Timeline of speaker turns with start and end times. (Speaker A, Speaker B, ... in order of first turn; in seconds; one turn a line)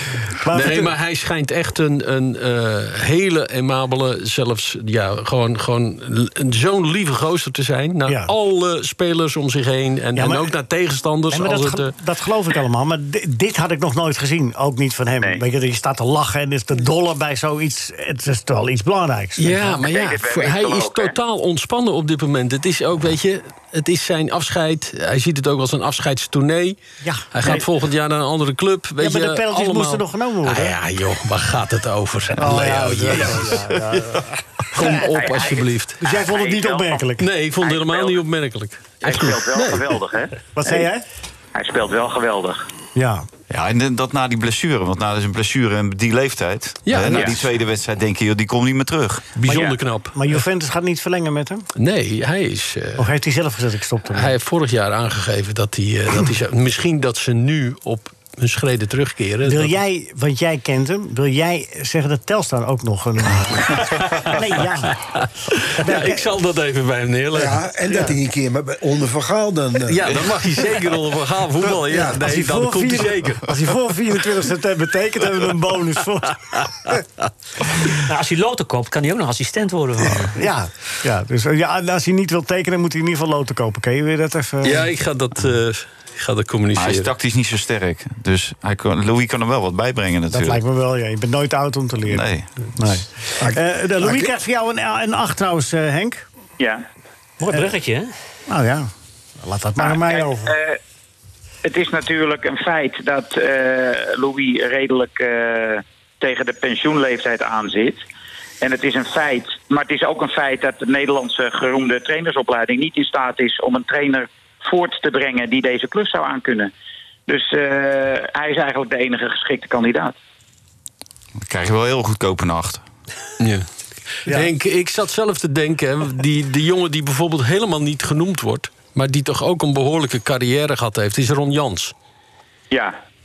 Speaker A: 0.4-0.9
Speaker B: 0.5-11.9
Speaker A: 8.0-8.3
Speaker A: 10.1-10.5
Speaker A: 11.3-19.8
Speaker B: 19.4-26.8
Speaker C: 19.8-21.1
Speaker A: 27.0-27.7
Speaker B: 27.3-34.0
Speaker A: 29.0-30.8
Speaker A: 32.4-35.0
Speaker B: 34.7-36.0
Speaker C: 35.1-37.0
Speaker A: 36.0-37.3
Speaker B: 37.2-40.0
Speaker C: 37.6-38.2
Speaker C: 39.0-40.9
Speaker A: 40.5-41.0
Speaker C: 41.5-42.6
Speaker A: 42.9-43.3
Speaker D: 43.5-49.3
Speaker B: 46.9-47.4
Speaker B: 49.4-50.4
Speaker A: 49.4-51.7
Speaker B: 51.8-53.1
Speaker A: 53.0-54.3
Speaker B: 54.1-59.7
Speaker A: 59.4-65.0
Speaker B: 63.9-64.4
Speaker B: 64.9-68.1
Speaker A: 65.8-66.3
Speaker E: 67.3-70.0
Speaker B: 69.9-73.6
Speaker D: 70.0-70.4
Speaker E: 71.8-72.2
Speaker A: 72.1-77.0
Speaker F: 78.0-80.3
Speaker A: 80.2-84.9
Speaker B: 84.6-87.1
Speaker D: 86.8-90.6
Speaker A: 90.3-96.2
Speaker D: 92.1-92.5
Speaker E: 93.4-94.3
Speaker F: 97.4-98.1
Speaker A: 98.5-100.5
Speaker C: 99.8-100.8
Speaker C: 101.6-108.0
Speaker C: 108.6-116.7
Speaker C: 117.3-120.1
Speaker D: 121.4-122.8
Speaker B: 123.4-123.7
Speaker B: 124.2-131.9
Speaker A: 124.2-124.5
Speaker C: 132.7-132.9